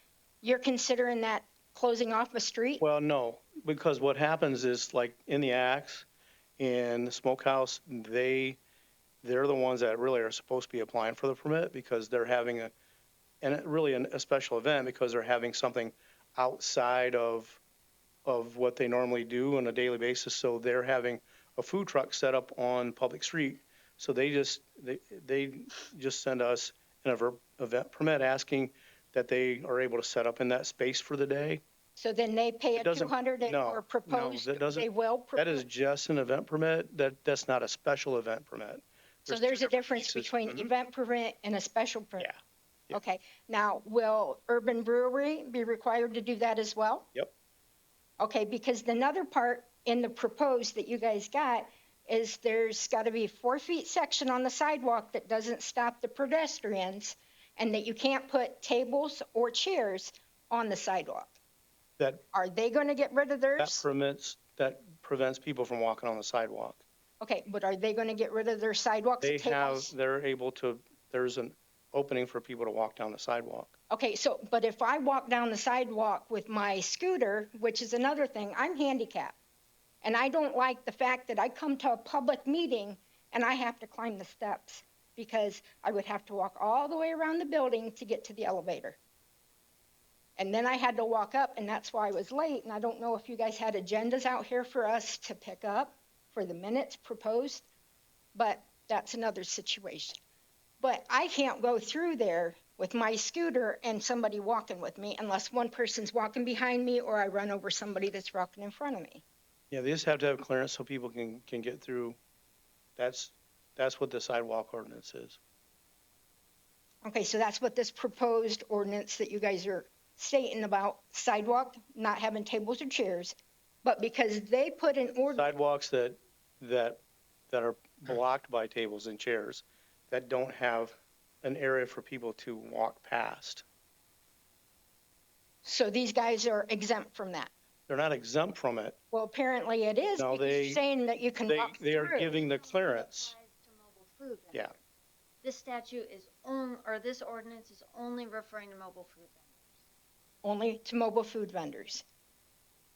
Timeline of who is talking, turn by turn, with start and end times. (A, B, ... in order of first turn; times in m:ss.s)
0:00.4-0:02.8 A
0:02.8-0:06.1 B
0:06.6-0:08.6 B
0:09.2-0:12.7 B
0:13.4-0:17.6 B
0:18.2-0:31.6 B
0:32.0-0:35.6 A
0:32.8-0:40.7 B
0:39.3-0:42.3 A
0:42.9-0:47.1 A
0:48.2-1:01.3 A
1:02.0-1:02.2 B
1:02.3-1:03.8 A
1:03.6-1:06.8 B
1:07.2-1:09.9 A
1:09.2-1:13.7 B
1:13.9-1:19.4 A
1:20.0-1:29.0 A
1:30.4-1:37.7 A
1:38.4-1:40.2 A
1:40.8-1:49.2 A
1:49.7-1:52.2 B
1:53.0-1:55.4 B
1:57.0-2:05.5 A
2:05.3-2:13.6 B
2:15.6-2:17.5 A
2:17.9-2:19.0 B
2:19.1-2:22.3 A
2:20.2-2:20.8 B
2:21.5-2:23.3 B
2:22.2-2:24.8 C
2:25.4-2:29.6 C
2:30.4-2:32.0 A